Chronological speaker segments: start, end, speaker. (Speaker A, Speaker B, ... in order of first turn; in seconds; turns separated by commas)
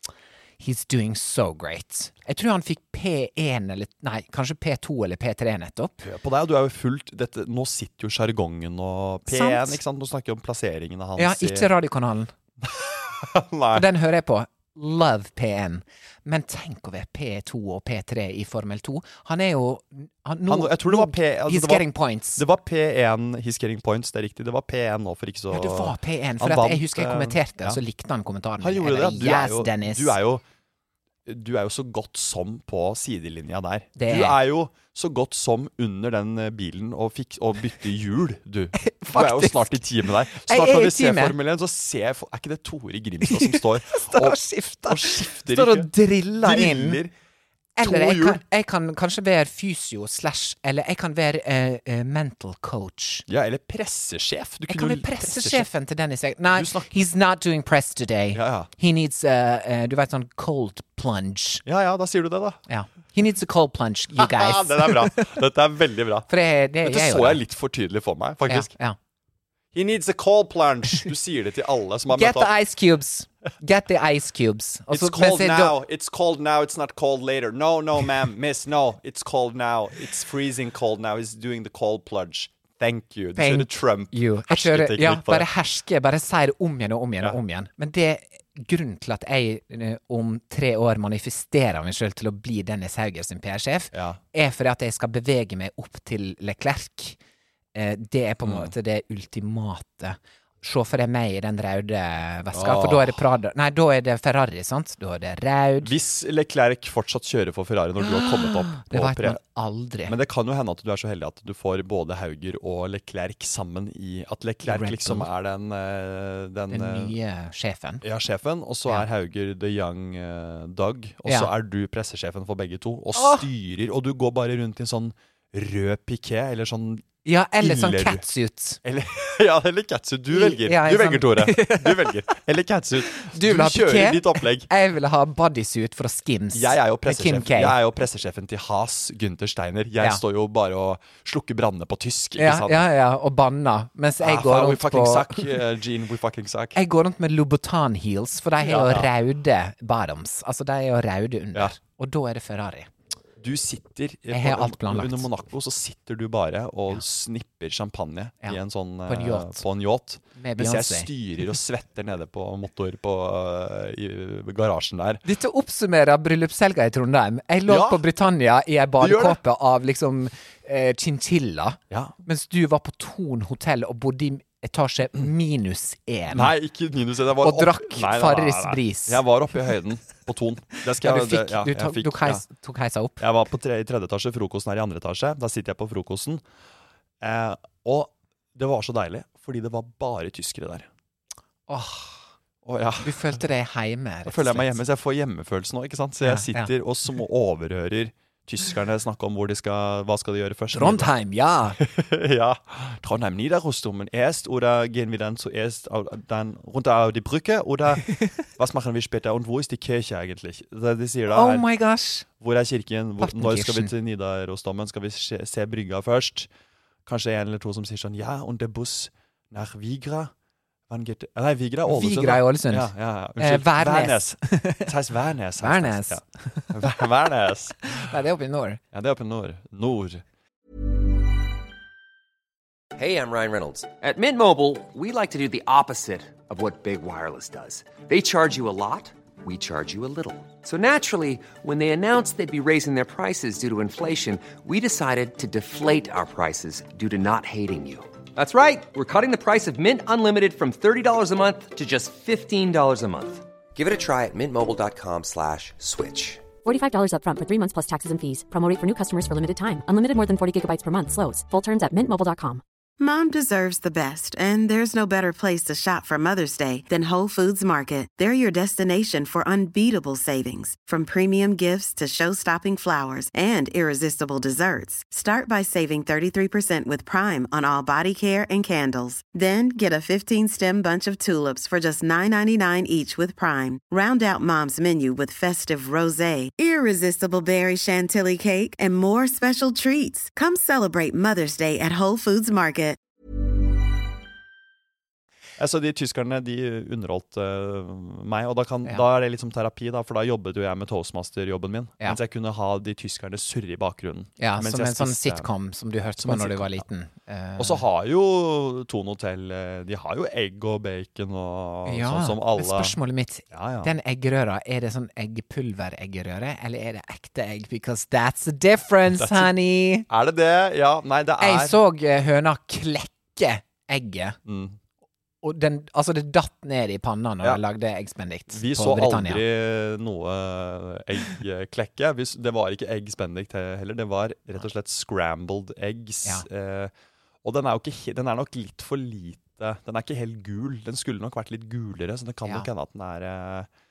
Speaker A: 0.6-6.0, Speaker B: 6.0-11.7, Speaker A: 9.3-9.8, Speaker A: 11.2-12.3, Speaker B: 12.6-13.9, Speaker A: 13.7-22.4, Speaker B: 20.5-27.8, Speaker A: 25.5-30.2, Speaker B: 28.6-30.4, Speaker B: 31.3-45.9, Speaker A: 34.0-34.4, Speaker A: 38.8-41.4, Speaker A: 43.2-47.0, Speaker B: 46.4-47.1, Speaker A: 47.8-53.3, Speaker B: 47.8-48.4, Speaker B: 53.3-55.7, Speaker A: 54.7-61.6, Speaker B: 56.5-56.9, Speaker B: 58.3-58.7, Speaker B: 61.6-62.6, Speaker A: 62.7-65.4, Speaker B: 64.2-66.3, Speaker A: 66.3-67.4, Speaker B: 66.8-68.7, Speaker A: 68.5-69.0, Speaker B: 69.7-72.5, Speaker A: 72.1-75.8, Speaker B: 74.9-85.5, Speaker A: 83.4-97.2, Speaker B: 93.9-94.2, Speaker A: 97.8-105.9, Speaker B: 98.5-98.7, Speaker B: 102.5-103.2, Speaker B: 105.8-109.4, Speaker A: 108.0-110.1, Speaker B: 110.1-117.1, Speaker A: 114.6-115.3, Speaker A: 116.7-118.0, Speaker B: 118.0-127.1, Speaker A: 121.3-121.5, Speaker A: 123.2-123.5, Speaker A: 127.2-128.8, Speaker B: 127.6-128.2, Speaker B: 128.8-134.7, Speaker A: 130.3-132.2, Speaker A: 133.1-137.8, Speaker B: 136.5-142.8, Speaker A: 142.4-145.6, Speaker B: 144.2-146.8, Speaker A: 146.8-152.9, Speaker B: 148.6-149.1, Speaker B: 153.4-165.2, Speaker A: 154.3-155.3, Speaker A: 158.4-159.6, Speaker A: 160.4-161.1, Speaker A: 165.2-176.5, Speaker B: 167.7-168.0, Speaker B: 169.0-169.4, Speaker B: 176.3-182.4, Speaker A: 177.4-179.2, Speaker A: 180.9-183.2, Speaker B: 183.2-186.4, Speaker B: 187.2-190.9, Speaker A: 191.7-192.2, Speaker B: 192.6-193.4, Speaker A: 193.0-194.8, Speaker B: 194.3-201.1, Speaker A: 196.2-196.7, Speaker A: 200.7-201.8, Speaker B: 201.8-211.7, Speaker A: 211.3-212.3, Speaker B: 212.4-216.5, Speaker A: 213.2-213.9, Speaker B: 217.1-220.3, Speaker B: 220.9-228.1, Speaker A: 221.9-224.9, Speaker A: 225.6-226.9, Speaker A: 227.8-228.8, Speaker B: 228.9-230.2, Speaker C: 233.0-256.4, Speaker D: 256.6-262.6, Speaker E: 263.0-293.0, Speaker B: 295.6-305.5, Speaker A: 304.4-307.8, Speaker B: 306.2-306.8, Speaker B: 307.6-313.0, Speaker A: 311.9-320.1, Speaker B: 313.5-313.9, Speaker B: 319.1-319.5, Speaker B: 320.1-321.8, Speaker A: 321.4-324.4, Speaker B: 324.5-324.8, Speaker A: 325.4-329.4, Speaker B: 328.5-336.9, Speaker B: 337.4-343.7